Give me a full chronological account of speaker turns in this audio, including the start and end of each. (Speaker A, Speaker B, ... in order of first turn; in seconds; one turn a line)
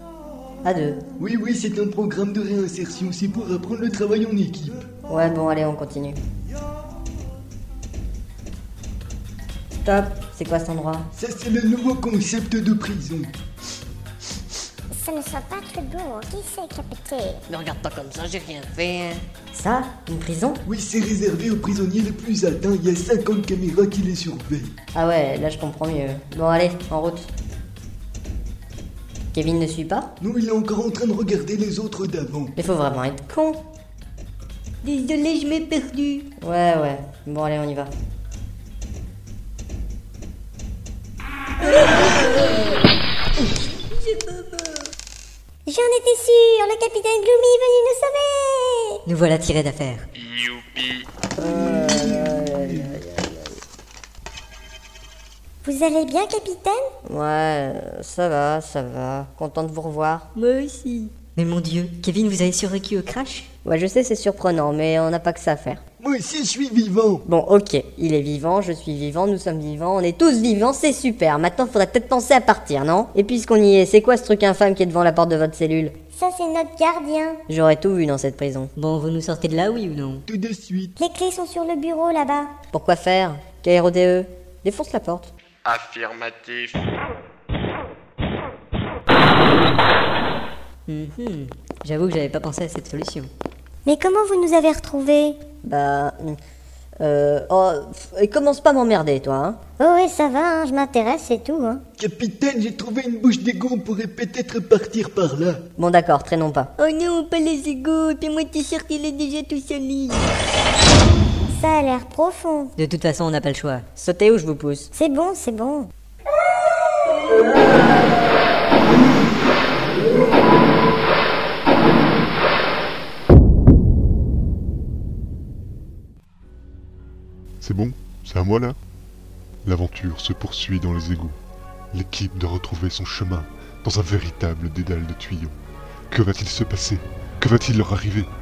Speaker A: 0.6-1.0
Speaker B: 1.2-4.8
Speaker A: 5.1-6.2
Speaker A: 9.8-11.1
Speaker B: 11.1-13.3
Speaker C: 14.9-17.4
Speaker A: 17.5-20.6
Speaker B: 20.6-24.7
Speaker A: 24.9-27.3
Speaker A: 29.3-30.1
Speaker B: 30.2-32.5
Speaker A: 32.5-33.6
Speaker D: 34.8-36.2
Speaker A: 36.4-37.9
Speaker D: 41.6-42.8
Speaker D: 43.8-44.9
Speaker C: 45.6-49.0
Speaker D: 49.0-50.0
Speaker E: 50.1-51.1
Speaker A: 51.4-53.5
Speaker C: 55.6-56.9
Speaker A: 57.0-60.3
Speaker D: 60.3-63.5
Speaker A: 63.6-65.8
Speaker B: 66.0-67.2
Speaker A: 67.2-75.9
Speaker C: 76.1-77.4
Speaker A: 77.5-78.7
Speaker D: 78.8-80.2
Speaker B: 80.3-80.9
Speaker C: 81.0-82.5
Speaker A: 82.7-85.3
Speaker E: 85.6-86.9
Speaker D: 90.9-93.3
Speaker C: 93.8-95.4
Speaker A: 95.6-96.4
Speaker A: 97.0-99.6
Speaker C: 99.8-101.8
Speaker B: 102.0-105.6
Speaker A: 105.8-106.7
Speaker D: 106.8-110.2
Speaker C: 111.5-112.7
Speaker D: 112.8-113.8
Speaker A: 114.0-114.9
Speaker C: 114.9-115.9
Speaker F: 127.6-128.8
Speaker F: 129.6-131.4
Speaker F: 131.9-135.5
Speaker F: 136.1-138.3